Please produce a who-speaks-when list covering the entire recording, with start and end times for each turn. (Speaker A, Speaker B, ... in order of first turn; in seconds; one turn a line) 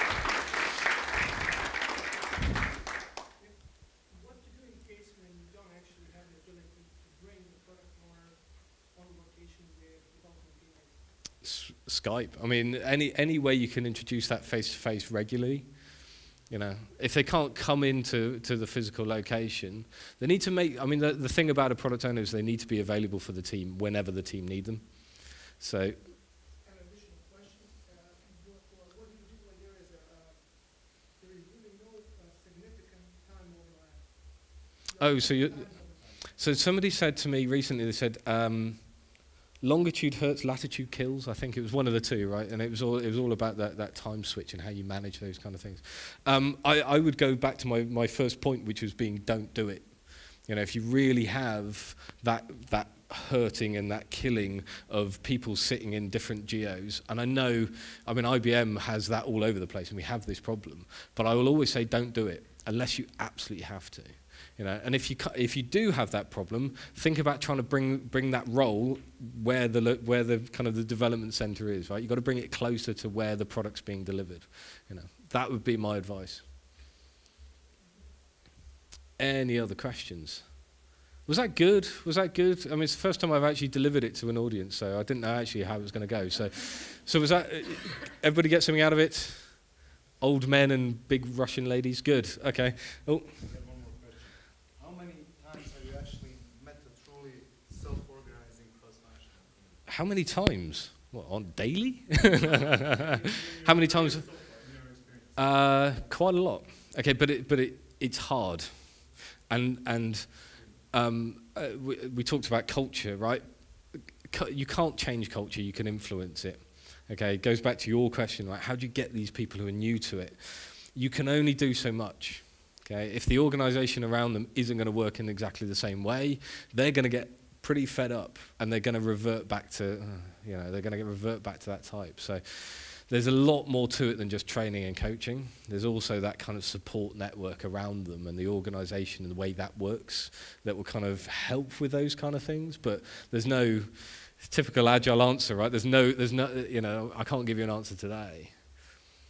Speaker A: 3.4-11.4
Speaker B: 11.4-26.0
Speaker A: 26.2-36.3
Speaker B: 35.0-76.4
Speaker A: 77.8-78.1
Speaker B: 79.2-80.5
Speaker B: 81.2-93.3
Speaker C: 93.2-99.8
Speaker B: 99.9-104.2
Speaker C: 102.4-106.2
Speaker B: 105.3-148.5